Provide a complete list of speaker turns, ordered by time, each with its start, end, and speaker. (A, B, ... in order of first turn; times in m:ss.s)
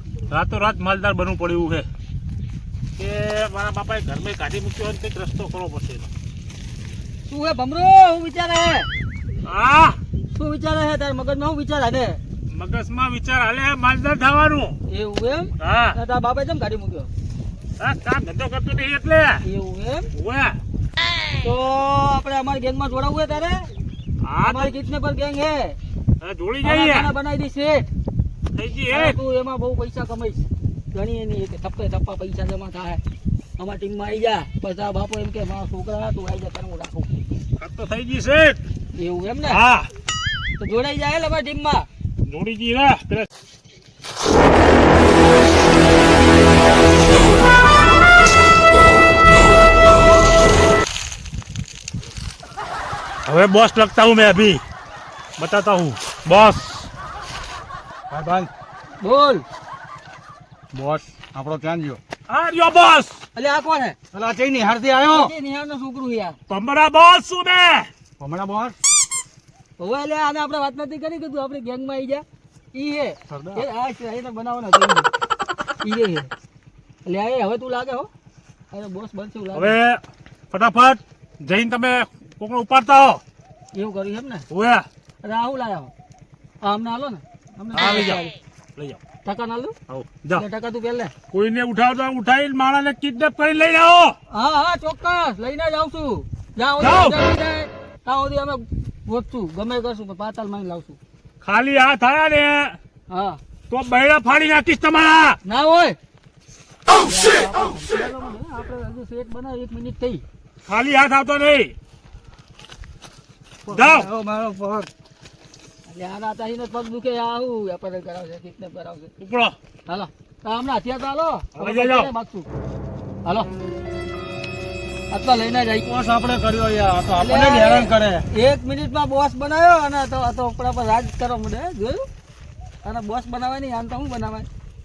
0:00.3-0:01.8 A
0:03.0-0:06.1 A
0:07.3-0:08.9 B
0:09.4-0:10.0 A
0:10.3-0:12.2 B
0:12.5-0:14.8 A
0:14.9-0:17.1 B
0:15.6-0:16.0 A
0:17.8-0:19.4 A
0:19.4-0:20.1 B
0:20.1-0:20.6 A
0:21.4-0:23.7 B
0:24.2-0:24.7 A
0:24.4-0:25.8 B
0:26.2-0:27.1 A
0:26.6-0:27.9 B
0:28.5-0:29.2 A
0:28.9-0:33.0 B
0:33.6-0:37.2 B
0:37.6-0:38.6 A
0:38.9-0:39.6 B
0:39.5-0:39.9 A
0:40.6-0:41.9 B
0:42.2-0:43.3 A
0:53.2-0:54.6 A
0:55.4-0:56.9 A
0:58.1-0:58.5 C
0:59.0-0:59.4 B
1:00.7-1:02.0 C
1:02.3-1:03.2 A
1:03.3-1:04.0 B
1:04.1-1:05.3 C
1:05.1-1:06.4 B
1:06.5-1:07.9 A
1:08.2-1:08.8 C
1:09.8-1:15.1 B
1:13.3-1:13.6 C
1:15.8-1:16.3 B
1:17.0-1:18.1 B
1:18.7-1:19.8 B
1:19.5-1:23.2 A
1:23.7-1:24.4 B
1:24.5-1:24.8 A
1:25.2-1:25.9 B
1:26.6-1:28.3 B
1:27.7-1:29.0 A
1:29.2-1:29.7 B
1:29.9-1:30.4 A
1:30.3-1:31.1 B
1:31.3-1:34.1 A
1:34.3-1:41.0 B
1:36.8-1:37.2 A
1:41.4-1:42.8 A
1:43.1-1:43.4 B
1:43.7-1:45.4 A
1:45.4-1:46.0 B
1:47.0-1:50.2 B
1:50.6-1:51.7 A
1:53.7-1:54.9 C
1:53.7-1:54.1 A
1:55.8-1:59.1 B
1:59.2-1:59.5 A
1:59.8-2:02.5 B
2:01.5-2:02.1 A
2:03.2-2:03.5 B
2:05.1-2:05.9 B
2:05.8-2:08.3 C
2:07.2-2:12.1 B
2:12.8-2:14.5 B